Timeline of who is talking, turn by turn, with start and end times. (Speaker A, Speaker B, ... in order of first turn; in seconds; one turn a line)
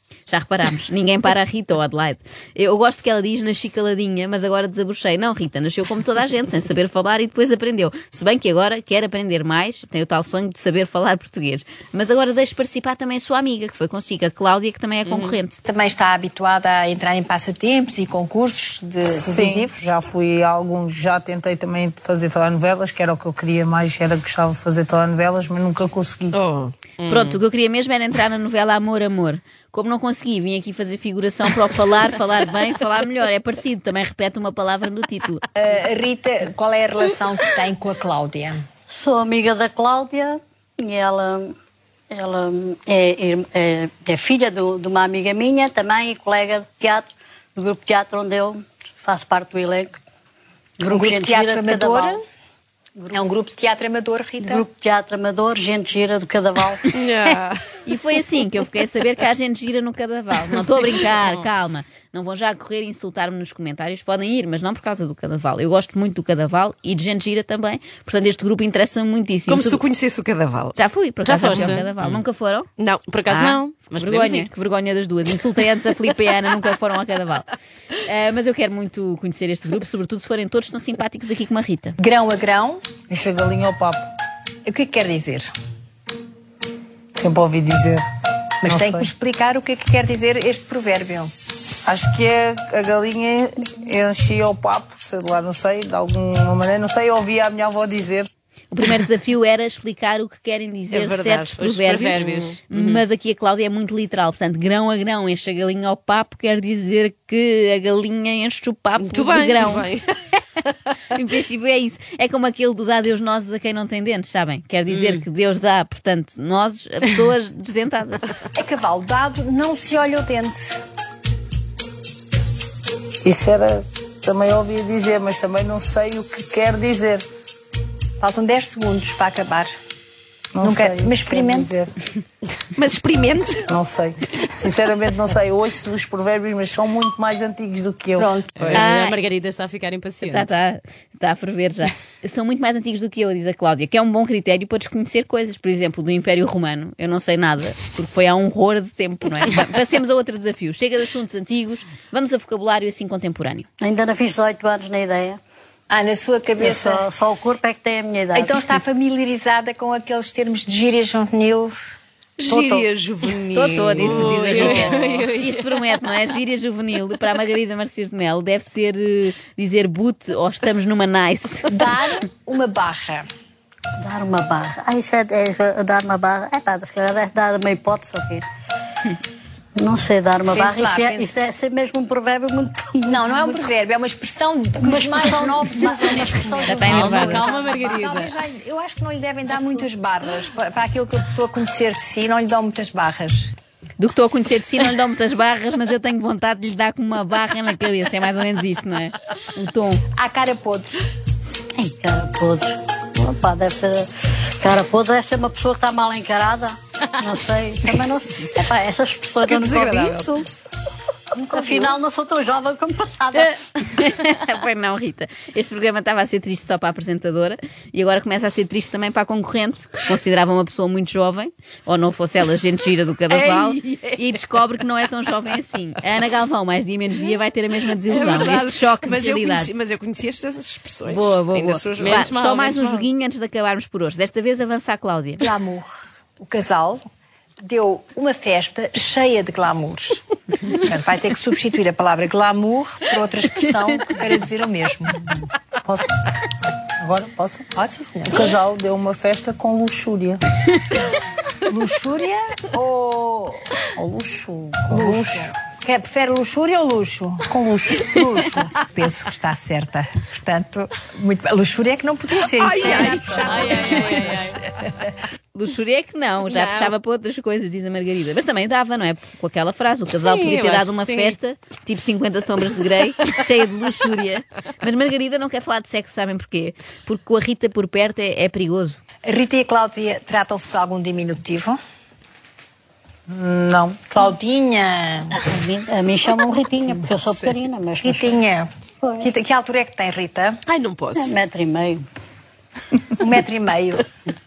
Speaker A: 0.3-15.6
Speaker B: 15.7-19.8
Speaker C: 19.1-26.4
Speaker D: 26.3-27.4
Speaker A: 27.1-35.4
Speaker B: 35.6-38.6
Speaker E: 38.9-41.5
Speaker E: 42.1-50.0
Speaker E: 50.8-52.2
Speaker B: 50.9-52.2
Speaker E: 53.0-53.2
Speaker B: 53.1-54.7
Speaker E: 54.4-56.9
Speaker D: 56.9-57.8
Speaker A: 57.9-69.8
Speaker D: 69.5-70.8
Speaker A: 70.8-72.7
Speaker F: 71.2-72.2
Speaker D: 71.5-71.8
Speaker D: 72.8-73.6
Speaker F: 73.1-74.5
Speaker A: 73.3-77.5
Speaker A: 78.0-82.0
Speaker B: 82.0-82.8
Speaker C: 83.1-84.1
Speaker B: 84.7-85.5
Speaker C: 87.2-88.0
Speaker B: 88.6-91.3
Speaker C: 88.6-89.1
Speaker C: 91.8-98.3
Speaker A: 98.7-109.9
Speaker D: 100.9-102.6
Speaker F: 101.6-103.0
Speaker D: 109.0-110.9
Speaker A: 111.1-118.3
Speaker F: 114.9-115.2
Speaker B: 118.5-120.8
Speaker C: 123.2-127.3
Speaker B: 128.2-129.7
Speaker C: 130.5-131.9
Speaker B: 130.6-131.8
Speaker D: 132.7-133.7
Speaker C: 133.7-138.3
Speaker B: 138.2-138.8
Speaker F: 138.6-140.6
Speaker A: 138.7-139.2
Speaker A: 140.2-153.7
Speaker E: 153.8-155.4
Speaker B: 155.9-157.0
Speaker E: 156.6-158.8
Speaker B: 158.3-161.8
Speaker D: 162.4-165.2
Speaker E: 162.5-162.9
Speaker A: 163.5-171.8
Speaker F: 164.0-165.7
Speaker B: 171.7-173.2
Speaker E: 174.0-178.4
Speaker E: 179.8-183.7
Speaker B: 180.5-181.3
Speaker B: 183.1-193.5
Speaker E: 184.8-187.6
Speaker A: 186.6-187.4
Speaker F: 186.9-188.4
Speaker A: 194.0-200.0
Speaker B: 200.2-200.9
Speaker E: 201.8-210.5
Speaker D: 209.4-210.4
Speaker B: 211.4-212.0
Speaker E: 211.4-213.6
Speaker A: 213.8-229.7
Speaker D: 223.3-224.4
Speaker D: 227.9-232.4
Speaker A: 231.1-235.4
Speaker F: 232.0-233.1
Speaker B: 235.4-237.0
Speaker B: 237.6-245.3
Speaker C: 245.8-246.2
Speaker C: 247.0-247.7
Speaker B: 247.8-248.5
Speaker C: 248.3-250.4
Speaker B: 251.7-253.7
Speaker C: 254.0-255.6
Speaker B: 254.9-257.5
Speaker C: 257.5-258.2
Speaker B: 258.0-265.0
Speaker D: 262.5-264.4
Speaker F: 262.9-264.6
Speaker A: 265.5-279.0
Speaker D: 266.5-266.9
Speaker F: 270.1-271.4
Speaker B: 279.2-281.8
Speaker C: 283.3-284.1
Speaker B: 284.1-285.4
Speaker E: 285.4-288.4
Speaker D: 287.1-287.5
Speaker B: 288.0-288.7
Speaker E: 289.0-289.3
Speaker B: 289.2-290.6
Speaker D: 290.7-291.4
Speaker E: 291.1-292.1
Speaker B: 293.2-294.1